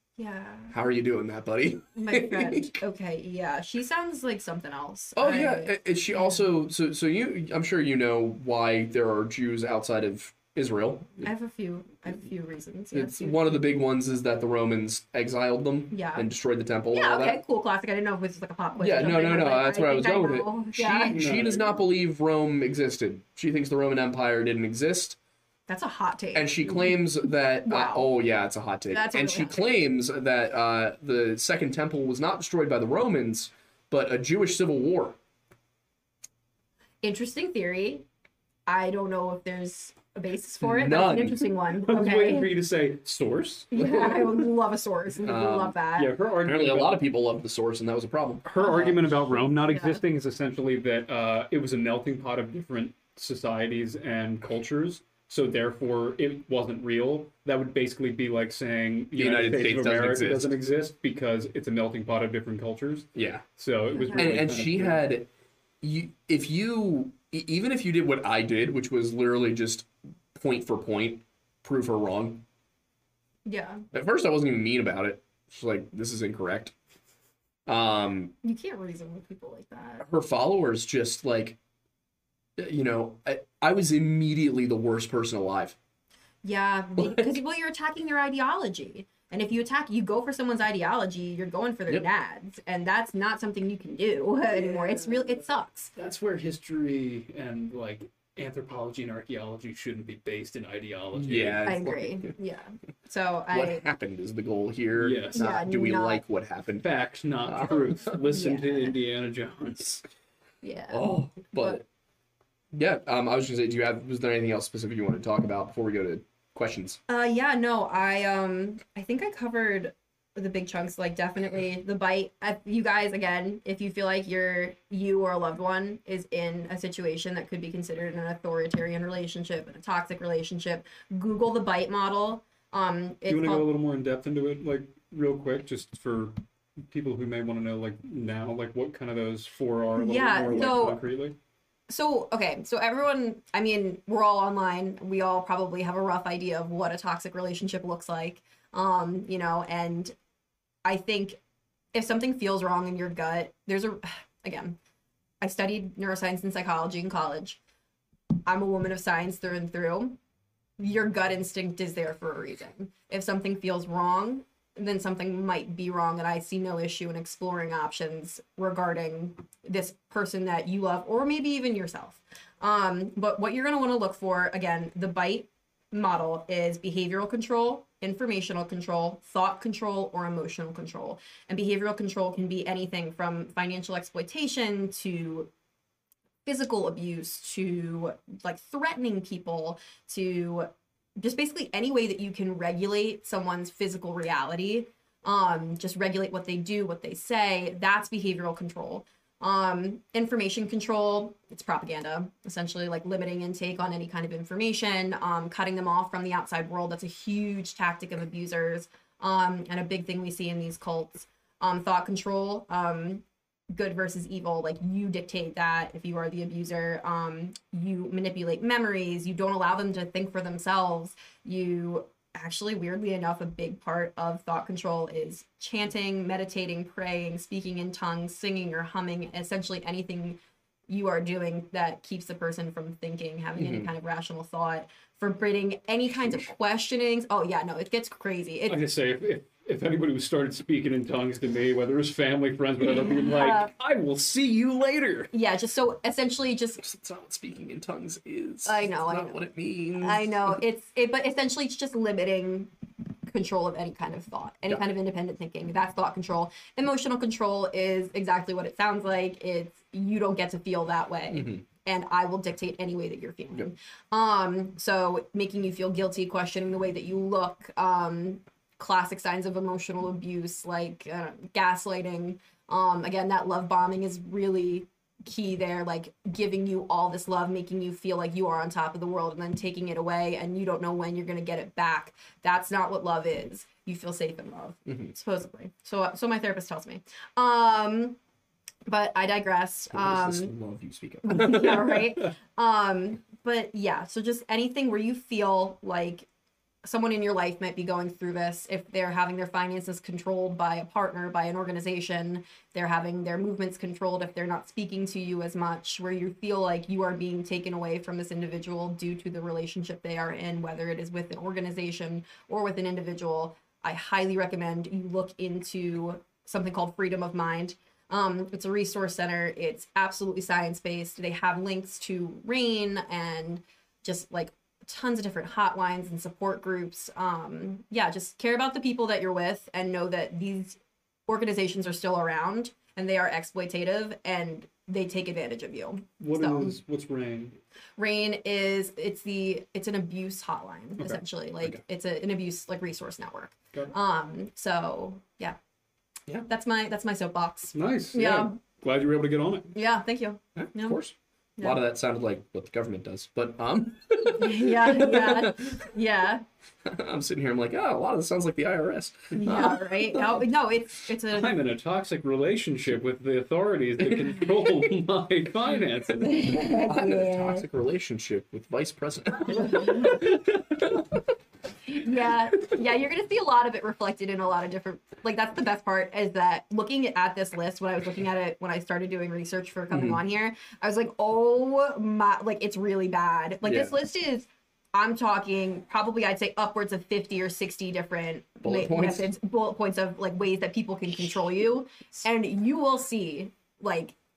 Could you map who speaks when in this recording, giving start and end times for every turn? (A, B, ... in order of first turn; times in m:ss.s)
0:00.2-0:00.8 A
0:00.7-0:02.7 B
0:02.0-0:06.5 A
0:05.2-0:11.3 B
0:11.2-0:13.6 A
0:12.9-0:17.4 B
0:15.9-0:16.3 A
0:16.9-0:21.7 A
0:18.8-0:25.2 B
0:21.1-0:21.6 C
0:25.7-0:27.0 A
0:26.3-0:35.2 B
0:27.6-0:28.1 A
0:28.9-0:29.6 A
0:37.0-0:38.0 A
0:38.7-0:42.5 A
0:40.6-0:41.4 B
0:41.8-0:43.7 C
0:43.7-0:46.1 A
0:43.8-0:44.4 B
0:45.2-0:45.8 B
0:46.0-0:47.0 C
0:46.4-0:49.0 B
0:48.4-1:05.0 C
0:48.6-0:49.0 A
0:49.6-0:50.0 A
0:59.2-1:00.5 B
1:03.1-1:03.4 B
1:03.9-1:04.4 A
1:04.1-1:05.3 B
1:05.8-1:12.4 B
1:13.5-1:13.8 A
1:13.9-1:16.7 B
1:17.7-1:18.3 B
1:18.4-1:20.0 A
1:20.0-1:21.6 B
1:22.6-1:25.8 B
1:26.4-1:35.9 A
1:27.0-1:27.4 B
1:36.0-1:41.7 C
1:41.2-1:42.3 B
1:41.6-1:43.8 A
1:43.5-1:46.9 B
1:45.0-1:45.5 C
1:45.3-1:46.2 A
1:46.8-1:50.0 C
1:47.5-1:47.8 B
1:48.3-1:48.9 A
1:50.6-1:51.8 A
1:50.9-1:51.8 B
1:52.7-1:57.0 B
1:57.1-2:13.7 A
2:13.3-2:16.4 C
2:16.9-2:21.4 C
2:20.0-2:21.0 A
2:21.9-2:30.1 A
2:30.8-2:31.4 A
2:31.9-2:34.8 A
2:35.4-2:37.6 A
2:38.5-2:40.2 A
2:40.8-3:05.5 A
3:06.4-3:58.8 A
3:53.6-3:53.9 B
3:58.7-4:05.3 C
4:03.1-4:03.7 A
4:05.3-4:06.8 A
4:06.8-4:10.6 B
4:08.7-4:09.4 A
4:10.0-4:12.7 A
4:13.3-4:48.2 A
4:21.3-4:21.6 B
4:48.9-4:50.5 A
4:49.9-4:52.0 B
4:51.2-4:56.3 A
4:56.8-5:36.8 A
5:36.2-5:37.6 C
5:38.0-5:45.6 A
5:46.5-5:48.6 A
5:47.7-5:49.7 C
5:49.7-5:51.0 A
5:50.6-5:55.8 B
5:54.3-5:56.4 A
5:56.8-6:00.4 B
5:59.4-6:01.6 A
6:01.3-6:06.6 C
6:06.2-6:07.6 A
6:06.4-6:11.0 B
6:09.7-6:10.1 A
6:11.9-6:34.1 A
6:19.9-6:20.2 B
6:23.6-6:23.9 B
6:28.6-6:29.3 B